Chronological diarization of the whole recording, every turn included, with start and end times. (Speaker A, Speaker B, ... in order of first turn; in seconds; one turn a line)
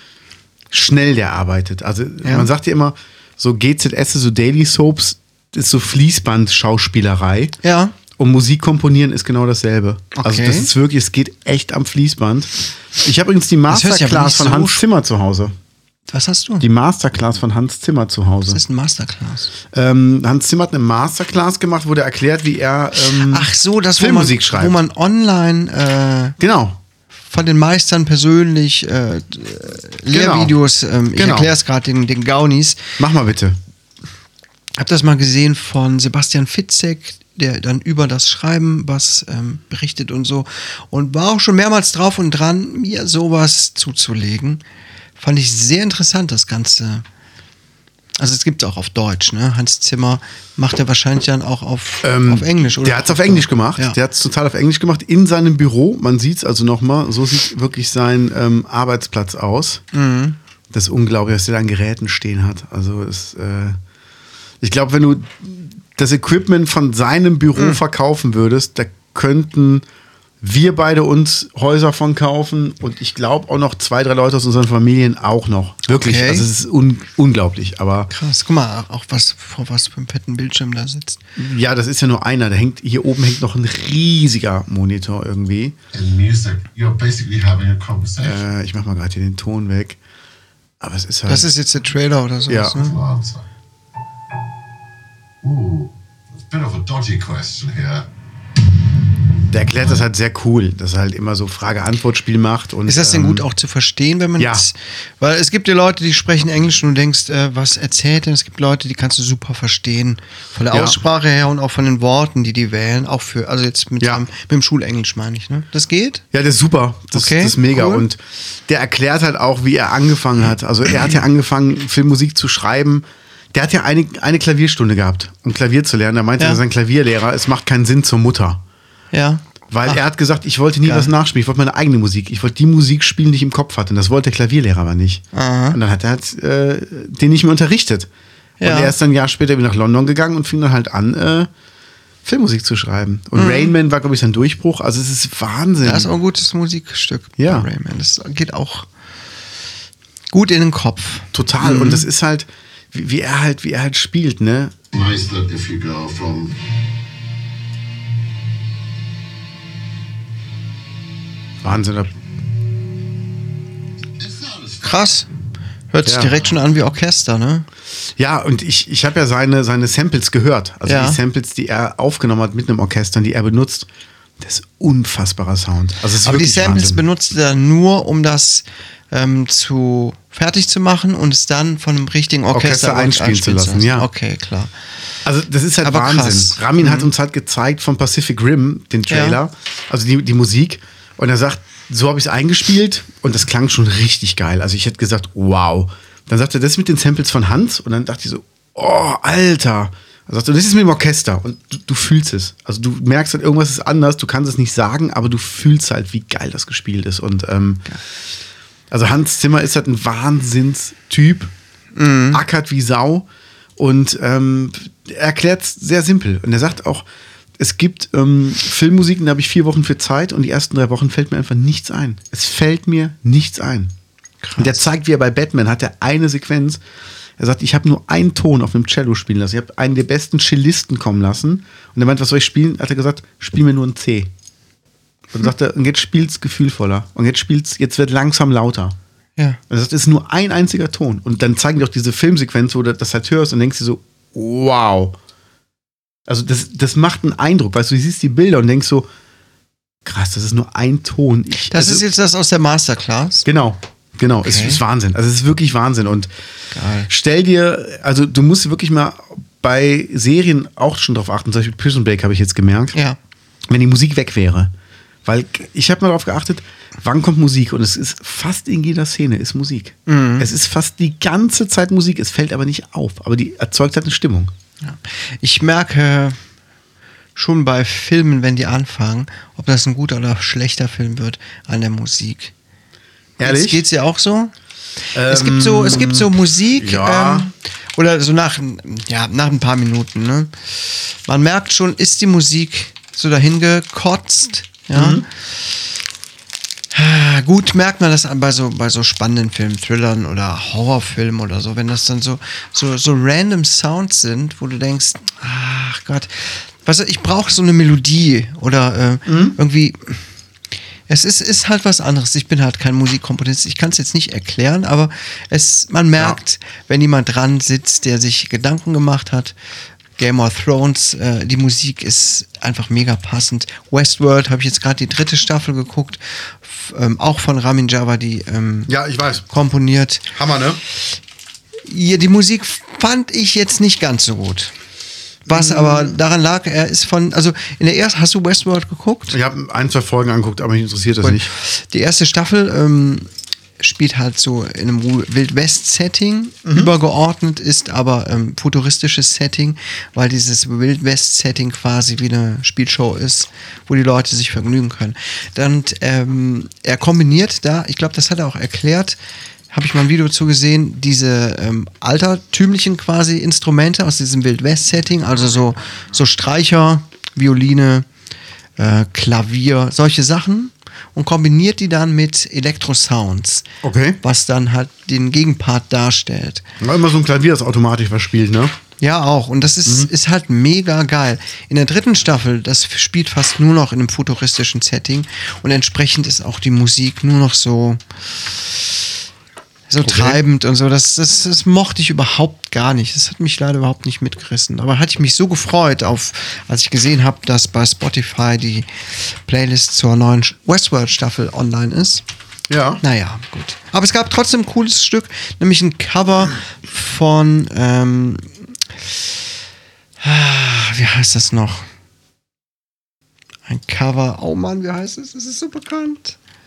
Speaker A: 0.7-7.6
Speaker B: 2.2-2.5
Speaker B: 7.6-8.0
Speaker A: 8.2-15.5
Speaker B: 10.2-10.7
Speaker B: 13.7-14.8
Speaker B: 16.1-16.7
Speaker A: 16.6-18.6
Speaker B: 18.5-19.5
Speaker A: 19.7-24.8
Speaker B: 23.0-26.4
Speaker A: 26.4-26.8
Speaker B: 27.3-33.0
Speaker A: 30.1-30.6
Speaker A: 31.1-31.5
Speaker A: 33.0-33.6
Speaker B: 34.8-44.6
Speaker B: 45.2-47.0
Speaker B: 48.2-54.0
Speaker A: 52.0-59.8
Speaker B: 59.9-60.4
Speaker A: 60.7-63.8
Speaker A: 64.6-69.8
Speaker A: 70.4-78.1
Speaker B: 75.9-76.5
Speaker B: 78.1-81.2
Speaker A: 81.4-85.8
Speaker C: 85.9-88.4
Speaker A: 88.2-90.0
Speaker A: 90.8-91.5
Speaker B: 91.3-93.0
Speaker A: 92.5-92.9
Speaker C: 92.7-93.5
Speaker C: 95.4-98.1
Speaker A: 99.5-103.5
Speaker B: 102.9-116.2
Speaker A: 104.4-104.7
Speaker A: 110.7-111.0
Speaker A: 116.3-128.6
Speaker B: 117.1-118.1
Speaker B: 129.1-130.0
Speaker A: 129.7-138.1
Speaker B: 130.8-131.1
Speaker B: 135.3-135.8
Speaker B: 138.6-138.9
Speaker A: 138.6-141.5
Speaker A: 142.2-146.1
Speaker B: 143.4-143.8
Speaker B: 145.8-148.9
Speaker A: 147.4-147.7
Speaker B: 150.3-152.1
Speaker A: 151.3-154.8
Speaker C: 154.9-156.6
Speaker A: 161.6-162.1
Speaker C: 164.2-165.0
Speaker B: 164.8-165.3
Speaker B: 165.9-167.7
Speaker A: 166.1-166.4
Speaker A: 168.2-173.9
Speaker B: 170.9-171.2
Speaker A: 174.4-177.0
Speaker B: 176.2-184.7
Speaker A: 182.5-184.1
Speaker A: 185.2-207.8
Speaker B: 185.8-187.1
Speaker B: 189.1-189.4
Speaker A: 208.9-211.5
Speaker B: 211.9-212.4
Speaker A: 212.3-213.3
Speaker A: 213.8-217.1
Speaker A: 217.6-223.9
Speaker B: 224.4-224.8
Speaker A: 224.6-226.8
Speaker A: 227.4-234.3
Speaker A: 235.3-239.0
Speaker A: 239.7-245.2
Speaker A: 246.3-249.1
Speaker A: 250.1-252.1
Speaker B: 251.6-253.5
Speaker A: 253.4-256.3
Speaker B: 254.4-254.8
Speaker B: 256.7-257.1
Speaker A: 257.1-263.0
Speaker A: 263.7-264.7
Speaker A: 265.2-274.5
Speaker B: 270.1-270.5
Speaker B: 274.8-276.4
Speaker B: 277.4-282.5
Speaker A: 283.4-283.8
Speaker B: 283.4-284.5
Speaker A: 285.1-287.5
Speaker B: 285.3-295.3
Speaker A: 294.9-295.3
Speaker B: 296.9-310.2
Speaker A: 309.3-309.6
Speaker B: 311.1-319.6
Speaker B: 320.2-328.9
Speaker A: 328.9-329.5
Speaker B: 329.5-330.3
Speaker A: 330.3-330.8
Speaker B: 331.9-334.7
Speaker A: 335.5-336.1
Speaker B: 335.5-339.4
Speaker A: 339.3-341.5
Speaker B: 341.2-343.3
Speaker B: 343.8-359.2
Speaker A: 346.6-346.9
Speaker B: 359.7-368.1
Speaker B: 368.8-373.7
Speaker A: 373.8-374.2
Speaker B: 374.2-376.6
Speaker A: 376.8-378.8
Speaker B: 379.0-388.8
Speaker A: 379.9-380.1
Speaker B: 389.9-402.2
Speaker A: 390.0-390.4
Speaker A: 402.7-403.0
Speaker B: 403.0-408.5
Speaker B: 410.2-411.9
Speaker B: 413.7-416.4